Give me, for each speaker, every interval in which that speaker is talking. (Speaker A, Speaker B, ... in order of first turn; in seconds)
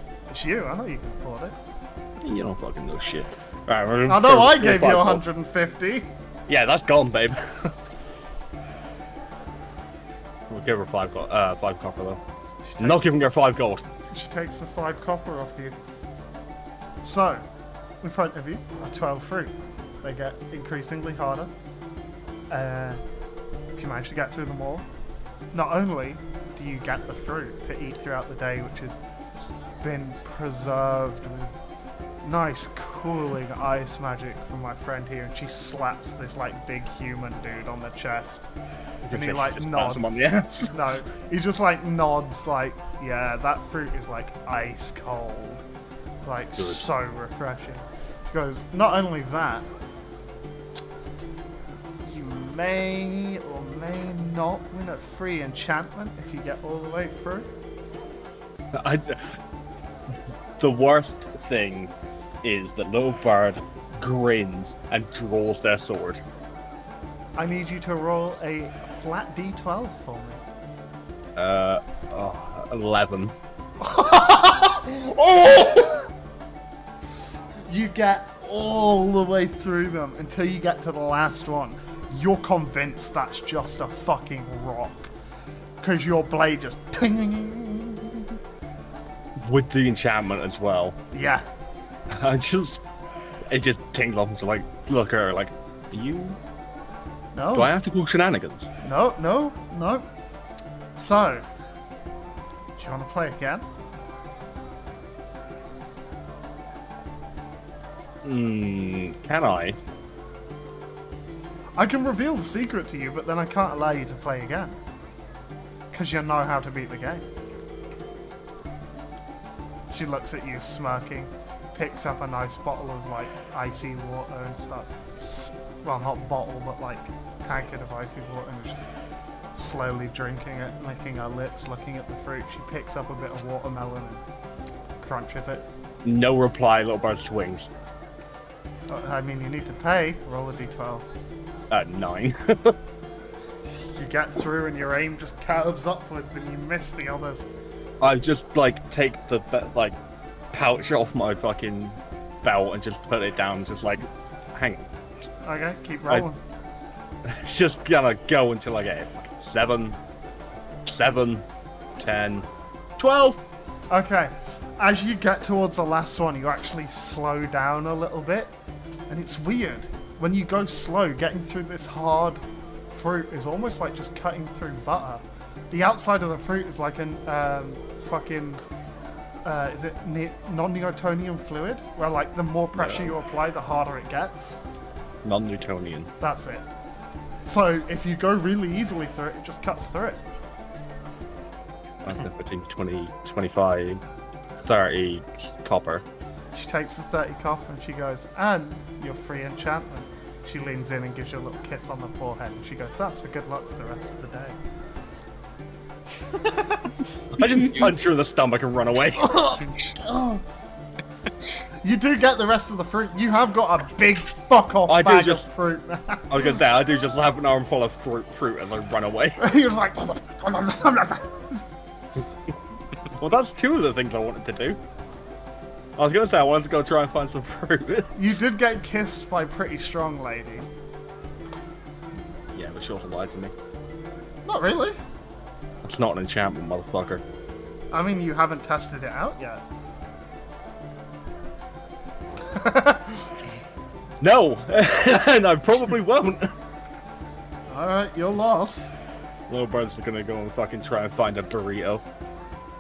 Speaker A: 0.3-1.6, 4.1-6.1, 12.6-13.2, 14.1-15.8, 17.0-17.4, 18.0-21.5, 22.5-23.0, 23.8-24.9, 25.5-29.0, 29.8-31.5, 32.2-38.5, 39.1-45.6, 46.2-49.7, 52.0-57.5, 67.4-70.5, 73.8-76.1, 77.7-85.1, 85.8-88.4, 91.1-91.5, 97.3-97.7, 98.8-100.1, 101.0-101.5, 102.8-103.7, 111.8-114.8, 115.9-117.2, 119.9-125.0, 125.8-128.9, 129.6-134.2, 135.0-135.7, 138.9-141.1, 143.9-147.5, 155.4-156.4, 163.9-168.5, 169.1-178.6, 179.4-184.6, 186.2-186.7, 187.5-190.2, 196.5-204.6, 206.3-206.9, 209.2-210.4, 211.8-216.6, 219.4-221.6, 228.2-230.7, 234.4-235.0, 237.9-239.6, 242.4-243.3, 247.7-248.9
Speaker B: 2.2-5.2, 6.5-7.7, 10.5-12.2, 12.8-13.8, 39.0-40.8, 46.6-46.9, 58.7-59.4, 60.1-66.2, 71.4-73.3, 89.4-91.0, 92.1-92.8, 93.5-96.4, 97.5-98.7, 108.2-109.8, 136.0-137.7, 141.7-142.8, 148.0-150.0, 150.5-154.9, 157.3-160.0, 160.8-161.4, 162.0-162.5, 163.0-163.4, 182.7-183.1, 185.2-186.1, 192.0-194.0, 194.6-196.1, 207.4-209.6, 214.9-215.5, 216.3-219.4, 223.2-224.8, 226.0-228.1, 232.5-233.5, 235.8-237.2, 244.2-246.5, 249.5-252.0